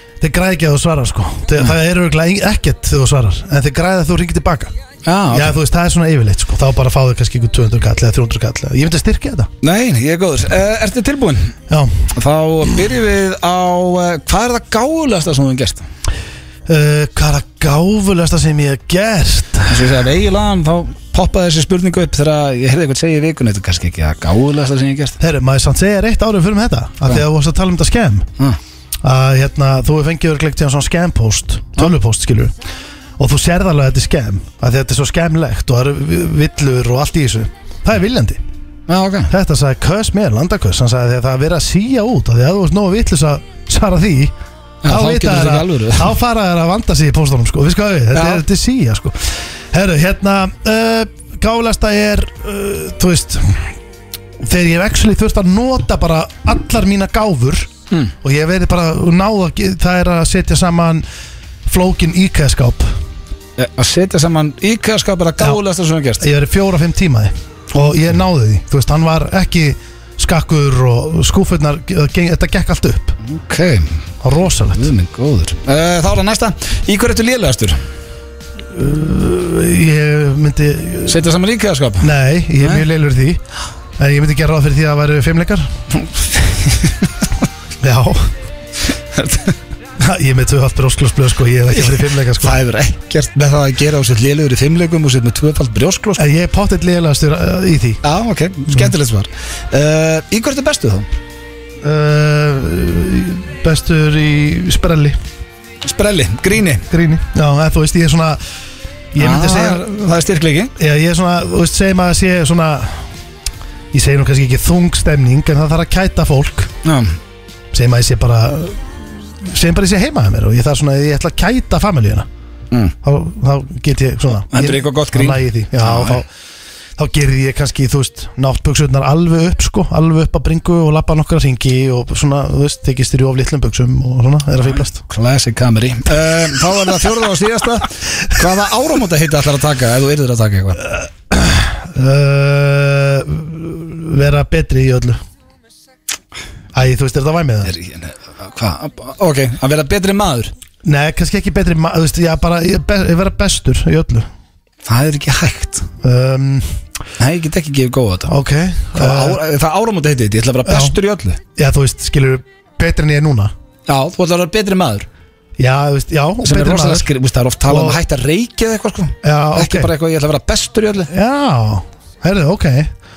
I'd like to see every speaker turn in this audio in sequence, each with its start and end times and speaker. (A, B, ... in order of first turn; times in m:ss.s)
0:00.2-0:04.7 A
0:05.0-0:05.5 B
0:05.3-0:09.5 A
0:09.6-0:11.5 B
0:11.7-0:12.1 A
0:12.1-0:15.8 B
0:16.7-0:20.0 A
0:19.6-0:25.2 B
0:25.2-0:28.3 A
0:29.0-0:32.5 A
0:33.2-0:38.4 A
0:38.9-0:39.3 B
0:39.3-0:44.3 A
0:44.8-0:46.1 B
0:44.8-0:53.8 A
0:48.1-0:48.4 B
0:54.4-0:57.7 A
0:58.2-1:01.0 A
1:01.6-1:03.0 A
1:03.6-1:06.3 B
1:06.2-1:13.2 A
1:13.2-1:14.0 B
1:14.2-1:14.9 A
1:14.7-1:17.8 B
1:18.7-1:21.2 A
1:21.0-1:22.1 B
1:22.0-1:23.4 A
1:24.0-1:25.7 A
1:25.9-1:27.1 B
1:27.8-1:28.3 A
1:29.1-1:29.6 B
1:30.0-1:32.6 A
1:31.7-1:36.2 B
1:36.2-1:38.0 A
1:38.0-1:41.1 B
1:41.8-1:45.2 A
1:45.8-1:46.8 B
1:46.9-1:48.4 A
1:49.1-1:49.8 A
1:49.2-1:50.7 B
1:50.8-1:53.1 A
1:53.9-1:56.7 A
1:56.8-1:57.2 B
1:57.7-1:58.8 A
1:59.4-2:02.3 A
2:03.0-2:06.3 A
2:04.5-2:06.2 B
2:07.0-2:15.0 A
2:15.0-2:20.9 B
2:20.9-2:25.2 A
2:26.7-2:27.7 A
2:27.6-2:30.5 B
2:30.8-2:34.3 A
2:34.8-2:35.9 B
2:36.0-2:36.8 A
2:37.2-2:38.3 B
2:38.3-2:39.4 A
2:38.9-2:41.4 B
2:40.6-2:40.9 A
2:41.6-2:43.5 A
2:43.9-2:45.1 B
2:45.6-2:47.1 A
2:46.4-2:51.1 B
2:47.7-2:48.0 A
2:49.2-2:49.9 A
2:51.1-2:52.9 A